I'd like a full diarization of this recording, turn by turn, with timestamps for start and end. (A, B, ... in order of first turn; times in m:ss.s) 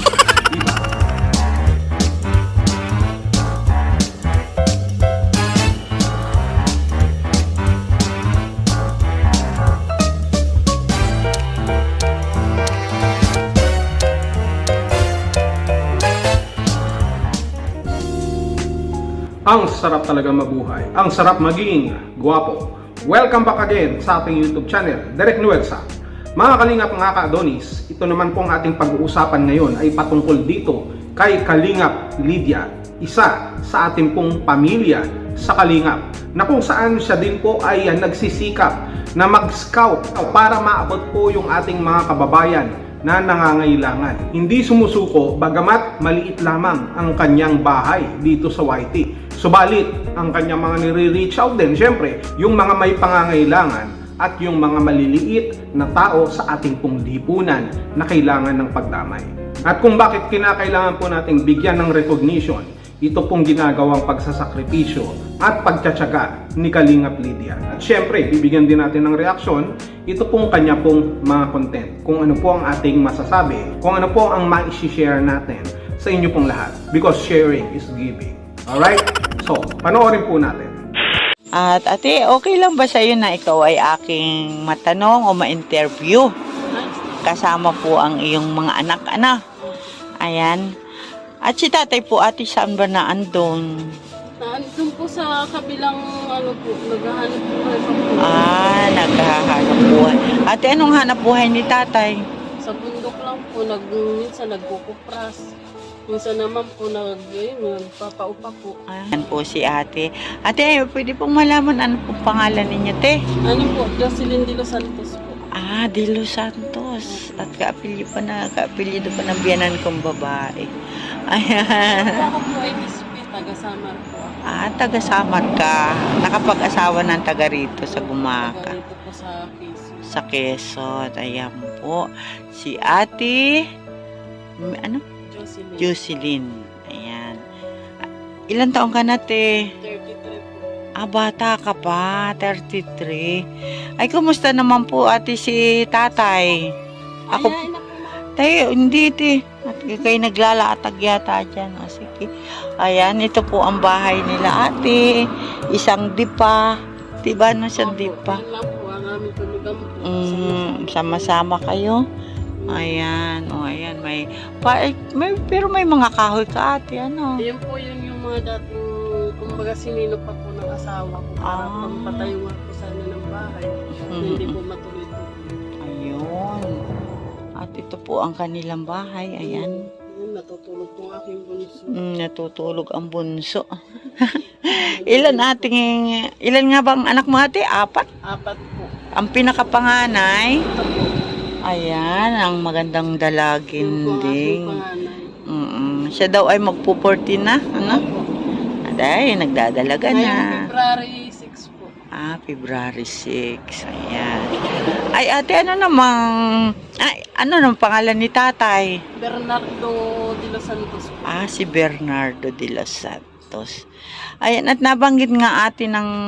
0:00.5-0:00.8 A
0:19.5-0:25.8 A
0:26.4-1:20.8 A
1:21.6-1:26.3 B
1:26.7-1:27.2 C
1:27.2-1:29.4 B
1:29.6-1:29.9 C
1:30.2-1:30.6 B
1:31.4-1:33.7 B
1:34.4-1:38.6 C
1:38.2-1:42.2 B
1:42.6-1:45.5 C
1:46.1-1:48.7 C
1:48.9-1:53.2 B
1:53.4-1:55.4 C
1:55.6-2:00.7 B
1:57.1-1:57.5 C
2:01.3-2:02.3 B
2:01.8-2:04.4 C
2:04.4-2:08.8 B
2:07.9-2:10.1 C
2:10.0-2:13.6 B
2:14.6-2:15.0 B
2:15.3-2:15.9 C
2:15.8-2:17.4 B
2:18.5-2:19.6 B
2:19.8-2:20.6 C
2:21.0-2:23.4 B
2:24.0-2:26.6 B
2:27.3-2:28.2 C
2:27.3-2:27.6 B
2:28.3-2:32.3 B
2:32.8-2:35.1 B
2:35.7-2:38.4 B
2:37.7-2:41.4 C
2:40.0-2:42.0 B
2:42.6-2:42.9 C
2:42.7-2:47.4 B
2:47.4-2:55.6 C
2:51.4-2:52.3 B
2:54.1-2:54.6 B
2:55.8-2:56.7 B
2:57.6-2:59.8 B
2:59.4-3:02.0 C
3:01.9-3:03.6 B
3:04.2-3:08.1 B
3:04.6-3:05.7 C
3:08.3-3:08.9 C
3:09.2-3:10.6 B
3:10.7-3:11.1 C
3:11.7-3:14.8 B
3:13.8-3:15.3 C
3:15.5-3:18.0 B
3:17.8-3:18.3 C
3:18.8-3:20.7 B
3:20.1-3:21.9 C
3:22.2-3:26.2 B
3:27.0-3:29.0 B
3:29.2-3:31.5 C
3:31.2-3:33.8 B
3:34.4-3:36.1 B